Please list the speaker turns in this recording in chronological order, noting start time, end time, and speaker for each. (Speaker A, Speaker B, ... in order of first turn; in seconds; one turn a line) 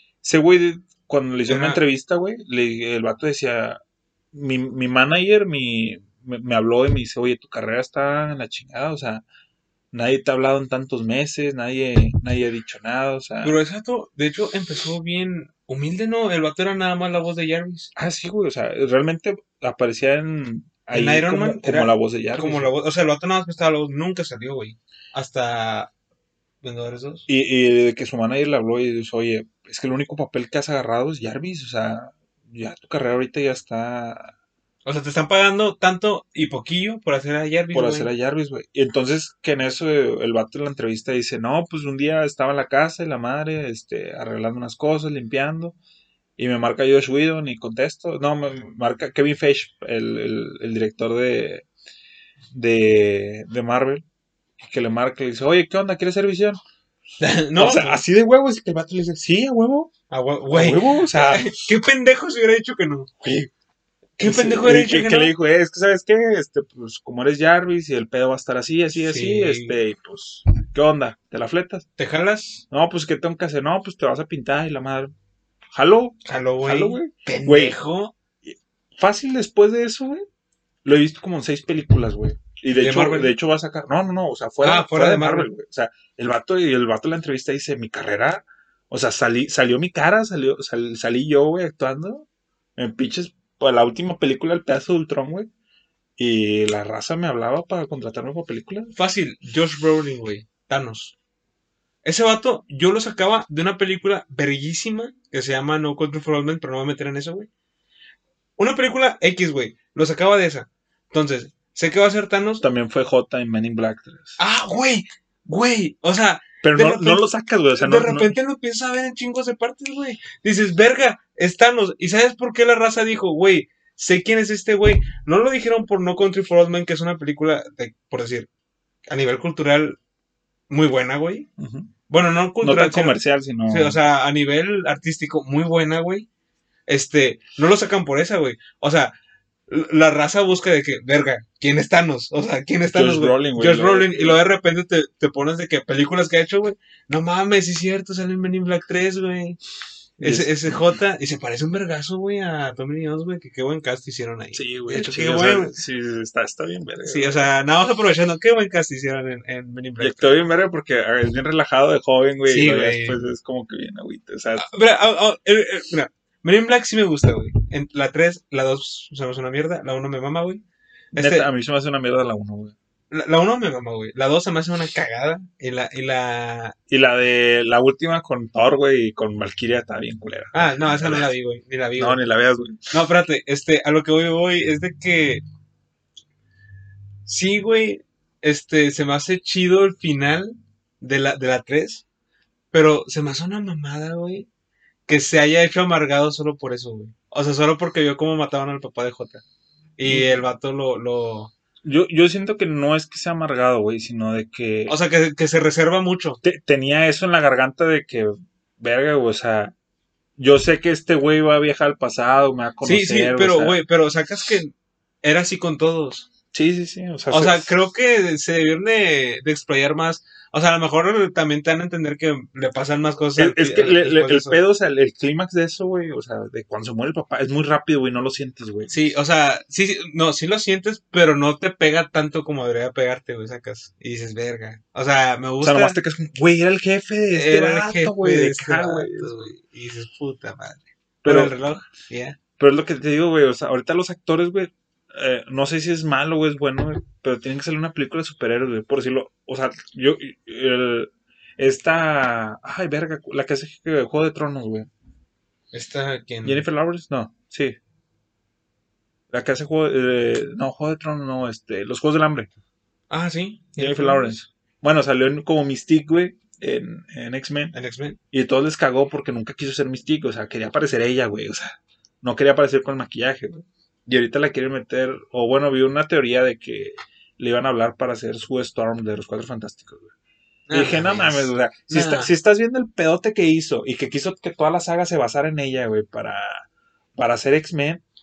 Speaker A: 0.2-3.8
Speaker B: 1.5-1.8
Speaker A: 4.3-9.2
Speaker A: 9.9-13.6
Speaker B: 13.4-17.9
Speaker A: 18.0-22.7
Speaker B: 20.9-25.9
Speaker B: 26.6-27.3
Speaker A: 27.3-34.3
Speaker B: 34.9-38.1
Speaker A: 37.7-45.8
Speaker A: 46.4-51.7
Speaker A: 52.5-54.0
Speaker A: 54.6-56.6
Speaker B: 57.2-58.0
Speaker A: 57.6-59.9
Speaker B: 60.1-63.1
Speaker A: 60.5-61.6
Speaker A: 63.2-63.5
Speaker B: 64.2-65.3
Speaker A: 64.2-71.9
Speaker B: 68.9-69.8
Speaker B: 72.0-72.6
Speaker A: 72.7-75.1
Speaker A: 75.7-77.8
Speaker B: 76.2-78.1
Speaker A: 78.5-80.2
Speaker A: 80.8-95.5
Speaker B: 82.7-83.3
Speaker B: 84.6-85.5
Speaker A: 96.2-98.9
Speaker B: 99.0-101.2
Speaker B: 102.0-107.5
Speaker B: 108.6-112.6
Speaker A: 112.6-114.4
Speaker B: 114.4-128.5
Speaker A: 116.6-118.3
Speaker B: 129.1-130.0
Speaker B: 130.7-131.5
Speaker A: 131.6-131.9
Speaker B: 132.1-136.3
Speaker A: 132.6-134.0
Speaker B: 136.9-139.1
Speaker B: 139.7-149.6
Speaker A: 142.9-144.4
Speaker B: 150.2-155.8
Speaker A: 150.2-150.8
Speaker A: 154.5-157.5
Speaker B: 157.1-160.4
Speaker A: 160.0-164.7
Speaker B: 162.4-163.2
Speaker B: 164.6-170.6
Speaker A: 171.1-172.8
Speaker B: 171.1-171.5
Speaker B: 173.1-176.8
Speaker A: 176.9-181.3
Speaker B: 180.5-182.2
Speaker A: 182.0-182.9
Speaker B: 182.9-185.4
Speaker B: 187.3-192.0
Speaker B: 192.7-194.5
Speaker B: 195.1-199.4
Speaker B: 200.0-201.5
Speaker A: 200.1-200.4
Speaker A: 201.8-205.0
Speaker B: 204.9-206.4
Speaker A: 206.4-209.7
Speaker A: 210.4-213.8
Speaker B: 212.8-216.3
Speaker A: 216.5-217.7
Speaker B: 217.3-224.6
Speaker A: 223.4-229.0
Speaker B: 228.9-236.0
Speaker A: 235.6-239.3
Speaker B: 237.3-242.4
Speaker A: 241.2-241.6
Speaker A: 242.6-254.9
Speaker B: 255.7-256.6
Speaker A: 256.4-257.8
Speaker A: 259.3-262.5
Speaker B: 263.1-264.4
Speaker A: 263.8-267.7
Speaker B: 267.7-268.2
Speaker A: 268.3-280.1
Speaker B: 280.7-282.3
Speaker A: 280.7-286.6
Speaker A: 287.2-288.0